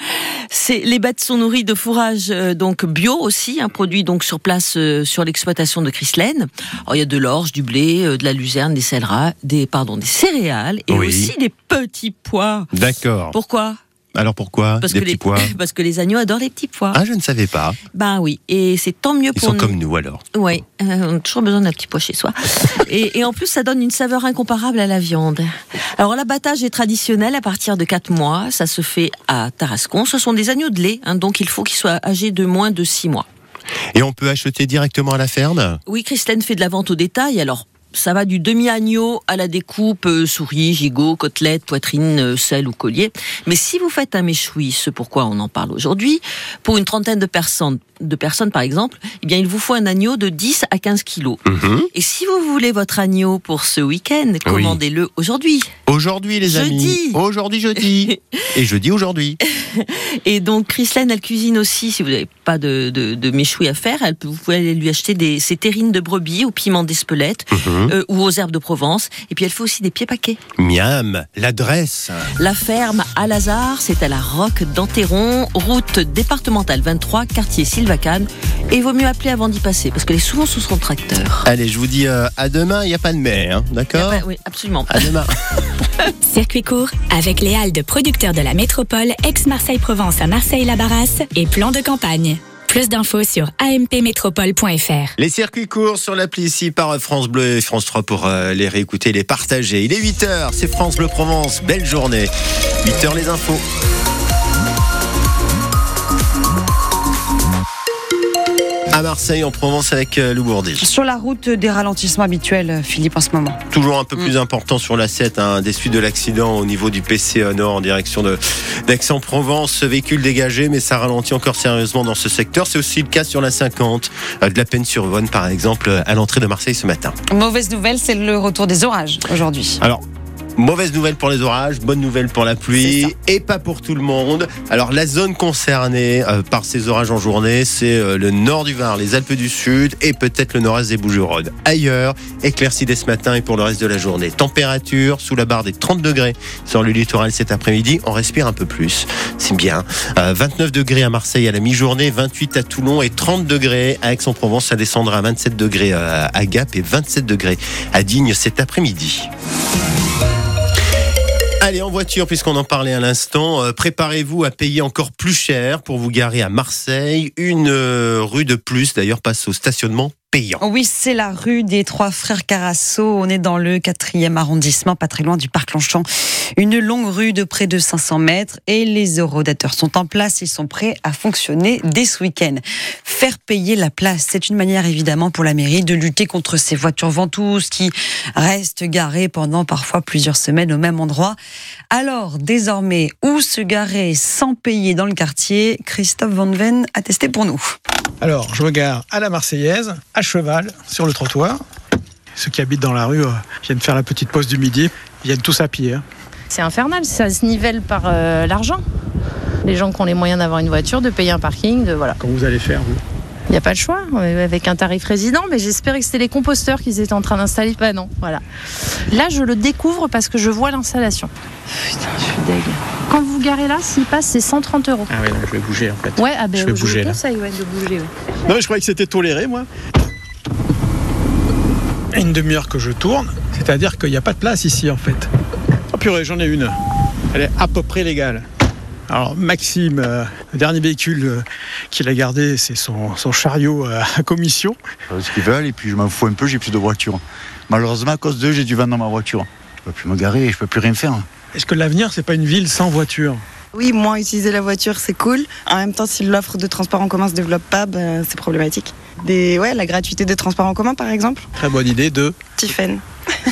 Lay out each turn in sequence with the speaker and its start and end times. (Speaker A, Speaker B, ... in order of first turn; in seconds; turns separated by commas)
Speaker A: 0.5-12.7, Speaker B: 10.9-11.3, Speaker B: 12.7-13.4, Speaker A: 13.3-13.8, Speaker B: 14.2-15.5, Speaker A: 14.8-17.0, Speaker B: 16.9-17.8, Speaker A: 17.9-19.8, Speaker B: 19.3-20.2, Speaker A: 20.3-33.3, Speaker B: 34.0-35.8, Speaker A: 35.9-51.4, Speaker B: 51.5-51.9, Speaker A: 51.9-55.7, Speaker B: 54.5-54.8, Speaker B: 55.9-59.4, Speaker A: 56.4-57.2, Speaker A: 57.8-58.2, Speaker A: 59.6-70.4, Speaker B: 67.5-67.9, Speaker B: 70.6-72.2, Speaker A: 72.4-81.5, Speaker B: 81.5-84.2, Speaker A: 83.9-85.1, Speaker B: 84.9-85.3, Speaker C: 86.2-95.1, Speaker B: 95.2-102.3, Speaker B: 102.8-103.6, Speaker B: 108.9-110.9, Speaker D: 110.8-113.6, Speaker B: 113.7-127.2, Speaker D: 127.3-129.8, Speaker B: 130.6-159.3, Speaker D: 132.8-133.1, Speaker B: 161.6-170.6, Speaker D: 170.6-176.1, Speaker D: 176.6-191.4, Speaker D: 191.9-197.7, Speaker E: 198.2-201.6, Speaker E: 202.3-206.0, Speaker F: 206.5-208.8, Speaker F: 209.6-212.2, Speaker E: 212.2-213.0, Speaker F: 213.5-218.4, Speaker F: 219.1-221.3, Speaker F: 221.9-225.1, Speaker E: 225.1-227.1, Speaker F: 226.2-228.1, Speaker E: 228.4-229.7, Speaker E: 232.1-235.3, Speaker E: 235.9-236.7, Speaker E: 237.3-238.4, Speaker E: 239.1-244.8, Speaker G: 245.1-251.3, Speaker E: 251.5-253.4, Speaker H: 253.8-261.4, Speaker E: 261.6-262.4, Speaker H: 262.8-263.0